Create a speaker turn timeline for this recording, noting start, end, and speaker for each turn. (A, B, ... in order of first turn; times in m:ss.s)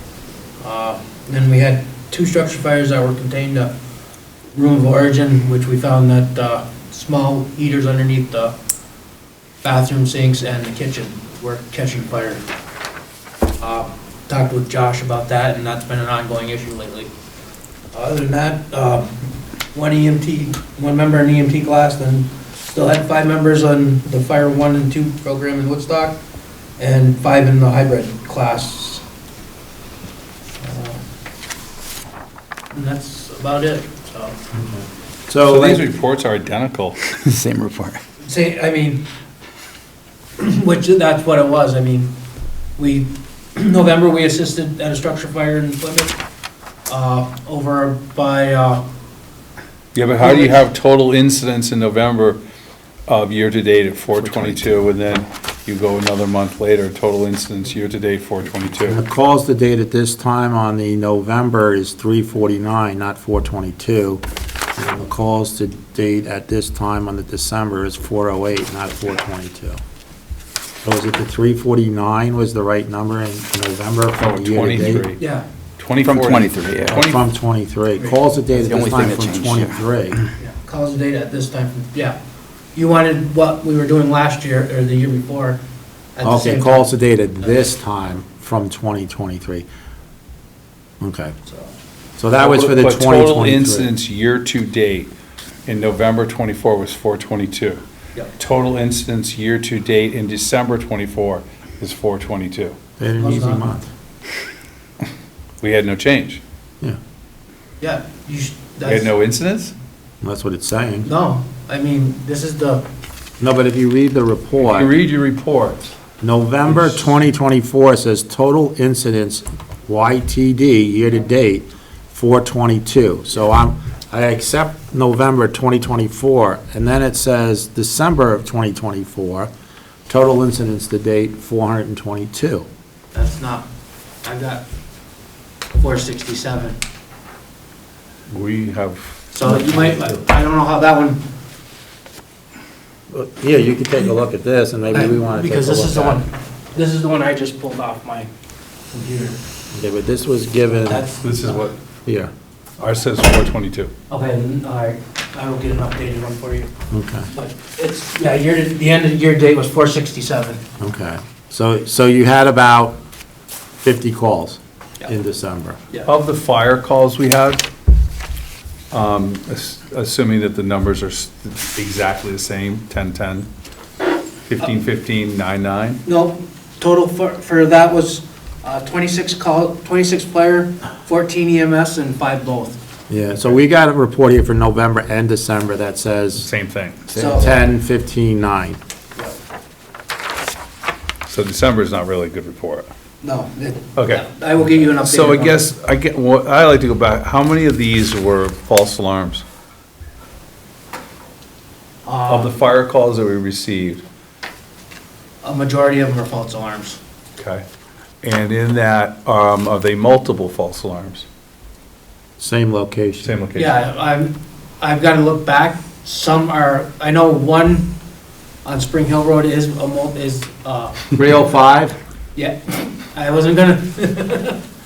0:00.6-0:03.7 A
0:04.5-0:08.5 A
0:09.6-0:12.4 A
0:13.6-0:17.1 A
0:17.9-0:19.1 A
0:19.7-0:26.2 A
0:26.8-0:29.0 A
0:30.6-0:31.0 A
0:32.7-0:34.4 A
0:34.5-0:35.8 B
0:35.4-0:37.0 C
0:37.2-0:38.0 D
0:38.2-0:39.0 A
0:40.4-0:42.1 A
0:42.8-0:46.2 A
0:46.9-0:48.8 A
0:49.9-0:52.4 C
0:50.2-0:50.6 A
0:53.1-0:59.0 C
0:58.8-1:04.2 B
1:04.8-1:09.8 B
1:10.8-1:15.1 B
1:14.2-1:15.2 C
1:15.2-1:15.4 A
1:15.8-1:17.2 C
1:16.0-1:17.0 D
1:16.9-1:20.2 B
1:18.5-1:19.8 D
1:20.4-1:22.2 A
1:22.7-1:25.6 A
1:26.2-1:26.9 A
1:26.2-1:29.6 B
1:31.0-1:31.4 B
1:32.2-1:33.9 B
1:32.4-1:35.1 C
1:35.6-1:37.8 C
1:38.4-1:42.7 C
1:43.0-1:43.9 B
1:43.2-1:43.7 A
1:45.6-1:46.4 C
1:47.8-1:49.1 A
1:48.8-1:49.7 C
1:50.2-1:51.1 B
1:51.0-1:52.8 A
1:53.4-1:54.9 B
1:54.6-1:55.9 C
1:56.2-2:09.5 B
1:56.7-1:57.1 C
2:10.1-2:12.6 B
2:13.1-2:13.7 A
2:14.2-2:14.6 A
2:15.8-2:16.8 A
2:18.3-2:20.1 C
2:19.3-2:21.2 A
2:23.1-2:26.2 B
2:24.9-2:28.3 A
2:28.9-2:29.4 A
2:29.7-2:31.0 B
2:30.8-2:31.7 A
2:31.2-2:31.7 C
2:32.0-2:32.3 B
2:32.8-2:33.9 C
2:34.1-2:36.7 A
2:36.9-2:37.3 B
2:37.3-2:40.6 A
2:40.8-2:43.0 B
2:43.8-2:45.8 B
2:46.0-2:47.6 C
2:48.9-2:53.5 C
2:54.5-2:56.0 C
2:56.0-3:02.8 A
3:03.1-3:06.5 B
3:06.4-3:07.3 C
3:07.1-3:08.8 B
3:07.1-3:07.5 A
3:11.2-3:12.9 C
3:13.2-3:15.6 A
3:14.0-3:14.2 C
3:14.9-3:19.4 C
3:22.0-3:22.5 A
3:22.3-3:24.0 C
3:25.4-3:27.0 A
3:27.4-3:27.6 C
3:28.2-3:31.2 C
3:32.4-3:33.3 B
3:33.2-3:33.7 C
3:33.6-3:37.9 A
3:38.6-3:41.0 A
3:41.1-3:42.0 B
3:42.3-3:44.6 A